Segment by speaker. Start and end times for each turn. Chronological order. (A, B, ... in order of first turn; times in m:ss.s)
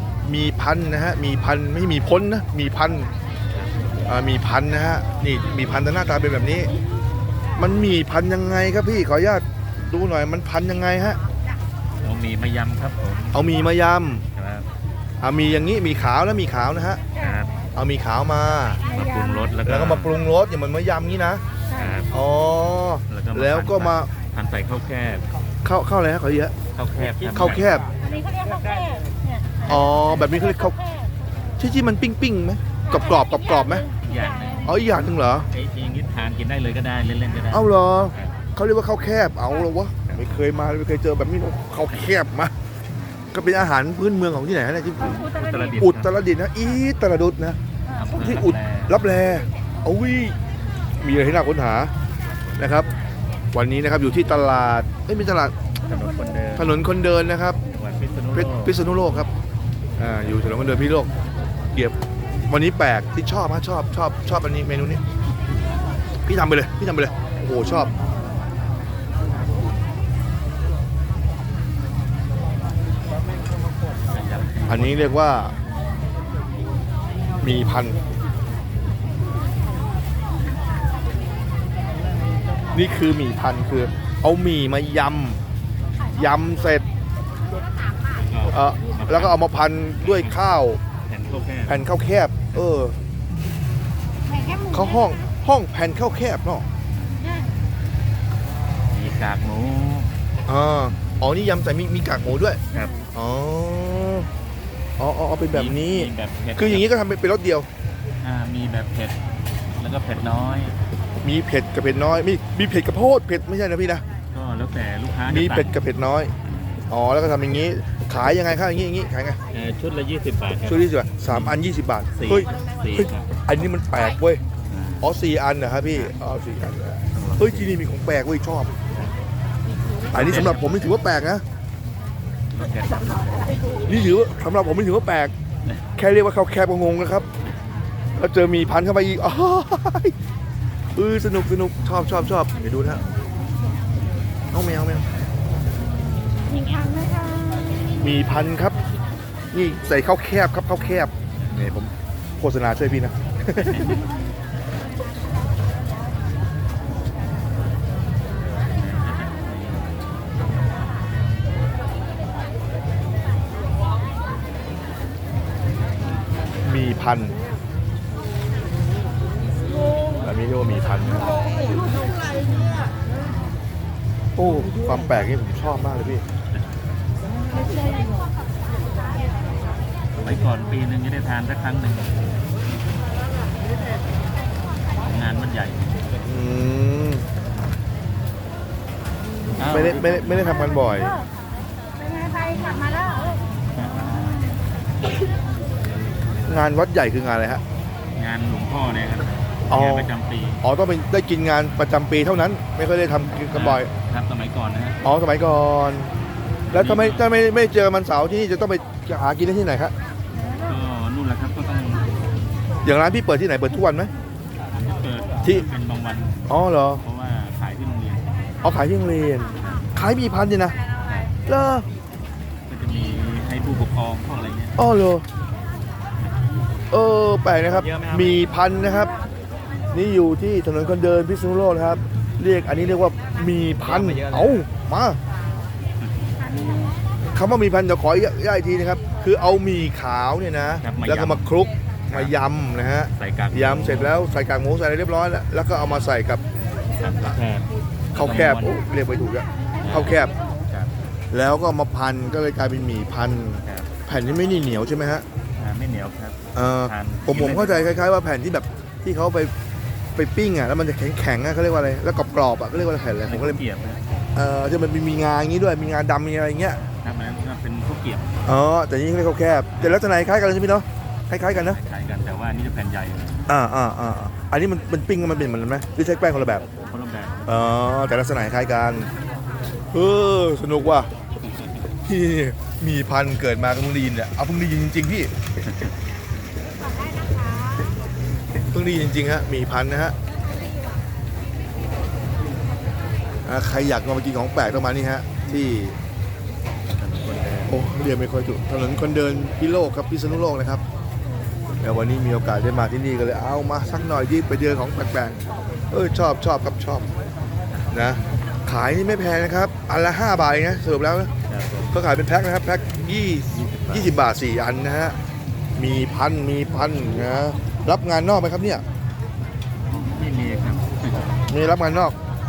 0:00.2-0:03.1 A
0:04.0-0:06.7 A
0:07.6-0:11.2 A
0:12.0-0:13.7 B
0:13.3-0:14.2 A
0:14.3-0:14.7 B
0:15.2-0:17.0 A
0:17.1-0:17.7 B
0:17.7-0:18.8 A
0:18.9-0:20.2 B
0:18.9-0:19.4 C
0:19.6-0:21.4 A
0:21.7-0:22.1 B
0:22.1-0:24.1 A
0:23.1-0:25.2 B
0:25.6-0:26.5 A
0:26.7-0:28.2 B
0:27.2-0:27.8 A
0:28.1-0:29.7 C
0:29.6-0:30.8 A
0:31.6-0:33.9 A
0:33.1-0:34.2 C
0:34.0-0:34.8 B
0:34.6-0:35.5 A
0:35.5-0:38.3 B
0:37.5-0:42.5 A
0:40.1-0:40.4 B
0:43.3-0:47.6 A
0:45.0-0:46.1 B
0:45.4-0:45.7 C
0:47.9-0:49.0 B
0:48.1-0:50.4 A
0:51.0-0:51.9 A
0:52.6-0:52.9 A
0:53.5-0:55.5 A
0:55.8-0:56.8 B
0:56.5-0:57.6 A
0:57.7-0:58.8 B
0:58.3-0:59.3 A
1:00.0-1:01.1 A
1:02.5-1:05.0 A
1:06.2-1:07.9 A
1:14.1-1:15.1 B
1:14.7-1:15.5 A
1:17.4-1:18.0 A
1:22.7-1:25.4 A
1:26.1-1:26.8 A
1:28.2-1:29.4 B
1:28.5-1:30.8 A
1:30.0-1:30.4 B
1:31.0-1:31.8 B
1:31.7-1:33.0 A
1:34.3-1:34.8 C
1:34.7-1:36.6 A
1:38.9-1:40.1 B
1:40.5-1:42.6 A
1:42.7-1:43.0 B
1:43.1-1:44.3 A
1:45.0-1:47.7 A
1:45.5-1:46.9 B
1:48.2-1:49.2 B
1:49.7-1:50.8 B
1:51.2-1:54.0 A
1:54.3-1:55.8 B
1:55.2-1:56.3 A
1:56.4-1:56.8 B
1:56.9-1:59.4 A
1:59.5-2:01.6 B
2:00.6-2:04.4 A
2:02.1-2:03.3 B
2:04.6-2:05.1 B
2:05.0-2:08.7 A
2:07.1-2:07.8 B
2:10.1-2:11.4 A
2:10.1-2:11.0 B
2:12.5-2:13.8 B
2:13.8-2:15.3 A
2:16.0-2:17.3 A
2:18.2-2:20.1 A
2:20.9-2:23.0 A
2:24.5-2:25.0 A
2:26.5-2:28.0 C
2:28.0-2:28.8 A
2:29.5-2:34.0 A
2:33.6-2:34.0 B
2:38.7-2:39.9 B
2:46.6-2:47.4 A
2:50.2-2:51.4 A
2:54.4-2:56.2 A
3:00.2-3:02.3 B
3:04.9-3:06.0 B
3:06.2-3:07.2 A
3:09.6-3:10.6 B
3:09.6-3:11.2 A
3:12.0-3:13.4 C
3:13.7-3:14.6 B
3:16.4-3:17.6 A
3:18.1-3:20.6 B
3:19.7-3:23.9 A
3:23.5-3:25.0 B
3:25.0-3:26.1 A
3:26.7-3:27.5 B
3:26.7-3:29.9 A
3:30.4-3:32.1 B
3:32.8-3:34.1 A
3:34.7-3:36.4 B
3:36.5-3:37.0 A
3:37.0-3:38.3 B
3:38.6-3:40.8 A
3:41.0-3:41.4 B
3:41.4-3:41.9 A
3:42.7-3:44.8 B
3:44.8-3:45.2 A
3:46.9-3:49.2 A
3:47.6-3:48.4 B
3:49.9-3:55.2 A
3:53.8-3:54.7 B
3:56.0-3:56.9 B
3:57.3-4:06.4 A
4:00.8-4:01.4 B
4:03.2-4:04.2 B
4:06.9-4:08.8 B
4:08.1-4:10.3 A
4:09.8-4:10.9 B
4:11.3-4:15.2 A
4:13.6-4:14.0 B
4:15.5-4:18.0 B
4:16.5-4:19.5 A
4:20.1-4:23.6 A
4:23.2-4:24.0 B
4:24.3-4:26.8 A
4:27.0-4:28.3 B
4:28.4-4:31.8 A
4:29.8-4:30.0 B
4:31.5-4:33.5 B
4:33.5-4:36.6 A
4:36.6-4:37.4 B
4:37.4-4:39.1 A
4:39.9-4:41.1 A
4:42.0-4:45.3 A
4:48.7-4:50.1 A
4:53.4-4:56.0 A
4:57.0-4:57.8 B
4:57.7-5:00.8 A
5:01.8-5:05.4 A
5:05.9-5:07.1 A
5:07.9-5:11.3 A
5:11.5-5:12.0 B
5:11.9-5:15.2 A
5:13.5-5:14.1 B
5:15.8-5:18.8 A
5:19.9-5:21.4 B
5:21.5-5:22.2 A